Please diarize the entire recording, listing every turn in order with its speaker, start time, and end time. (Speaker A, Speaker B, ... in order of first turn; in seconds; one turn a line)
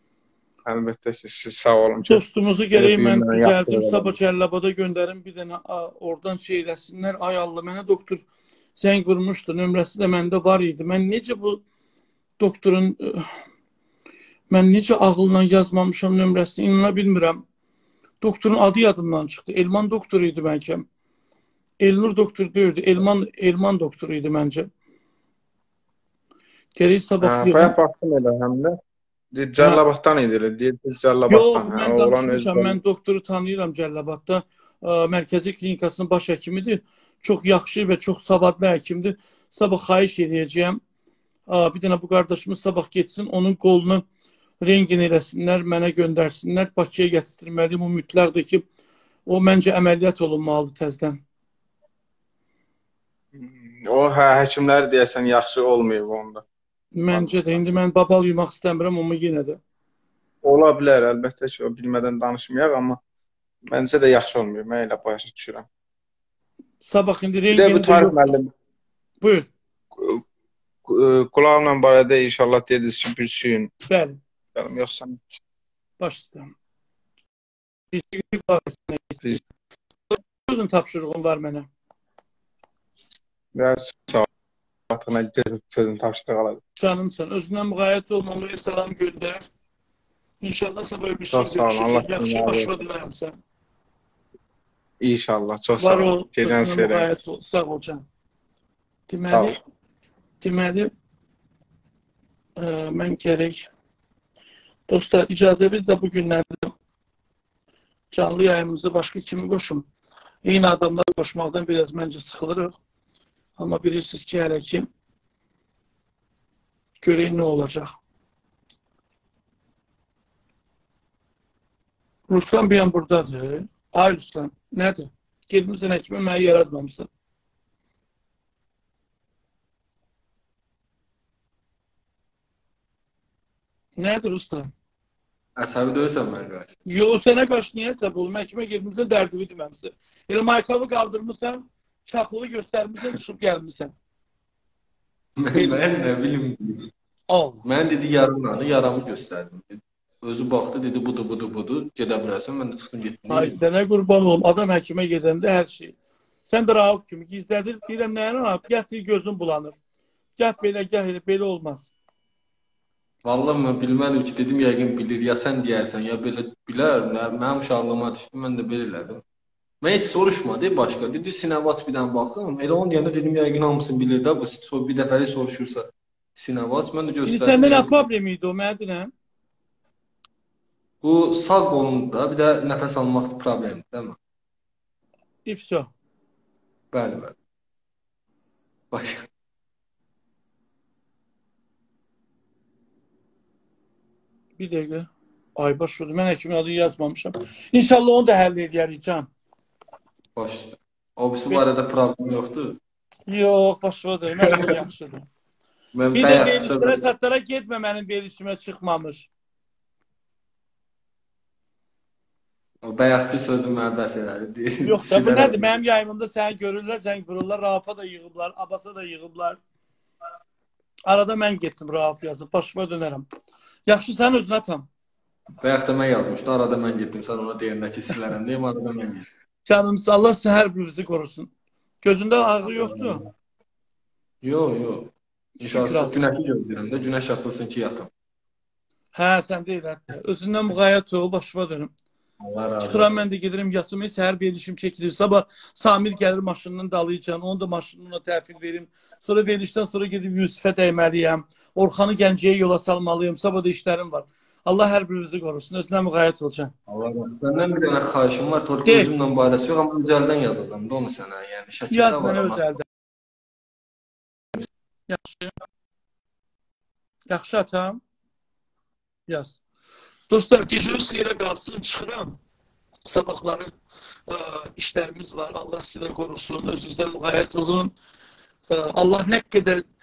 Speaker A: 0.7-4.2
Speaker B: 2.1-8.2
Speaker B: 8.8-11.6
Speaker B: 12.4-13.3
Speaker B: 14.5-17.4
Speaker B: 18.2-20.9
Speaker B: 21.8-24.7
Speaker B: 26.8-27.8
Speaker A: 27.2-28.8
Speaker A: 29.3-32.8
Speaker B: 31.3-40.8
Speaker B: 41.5-44.0
Speaker B: 44.6-48.6
Speaker B: 49.3-51.2
Speaker A: 53.4-56.4
Speaker B: 57.0-59.6
Speaker A: 57.1-57.6
Speaker A: 60.4-63.0
Speaker A: 63.7-65.7
Speaker B: 66.8-68.4
Speaker A: 67.5-68.5
Speaker B: 69.2-69.5
Speaker A: 70.9-73.7
Speaker B: 73.9-74.2
Speaker A: 74.6-75.2
Speaker B: 76.0-76.5
Speaker B: 77.9-79.3
Speaker B: 80.1-81.7
Speaker A: 83.5-84.3
Speaker A: 84.9-86.6
Speaker B: 86.8-89.5
Speaker B: 90.4-93.4
Speaker A: 91.3-92.7
Speaker A: 95.0-97.1
Speaker B: 95.8-98.0
Speaker B: 99.1-99.6
Speaker B: 100.4-100.9
Speaker B: 102.6-103.7
Speaker B: 104.9-106.7
Speaker B: 108.1-109.9
Speaker B: 110.4-112.8
Speaker B: 113.6-114.9
Speaker B: 117.0-117.9
Speaker B: 122.3-127.1
Speaker B: 134.0-134.7
Speaker C: 135.6-136.8
Speaker B: 136.9-143.9
Speaker C: 145.4-146.9
Speaker B: 147.3-147.6
Speaker C: 147.6-153.6
Speaker B: 153.3-155.9
Speaker B: 156.5-159.8
Speaker B: 160.4-161.9
Speaker C: 163.2-169.2
Speaker C: 169.8-178.0
Speaker B: 177.2-179.1
Speaker C: 181.0-184.2
Speaker B: 185.5-185.9
Speaker C: 186.9-187.3
Speaker C: 188.9-189.2
Speaker B: 194.6-199.3
Speaker C: 200.4-202.8
Speaker B: 203.3-205.3
Speaker C: 205.9-207.0
Speaker B: 206.1-209.3
Speaker C: 212.8-215.7
Speaker B: 214.8-219.6
Speaker B: 221.1-223.3
Speaker B: 223.9-224.9
Speaker C: 225.6-229.2
Speaker B: 229.7-231.5
Speaker B: 232.0-233.2
Speaker C: 232.7-233.2
Speaker C: 234.4-238.1
Speaker B: 235.6-236.2
Speaker B: 239.1-241.9
Speaker C: 242.4-243.2
Speaker B: 242.8-256.7
Speaker C: 256.9-262.8
Speaker B: 261.9-262.8
Speaker B: 265.1-265.6
Speaker B: 267.3-268.0
Speaker B: 269.3-269.6
Speaker B: 270.3-272.4
Speaker B: 273.1-273.7
Speaker B: 274.3-277.9
Speaker B: 278.7-279.8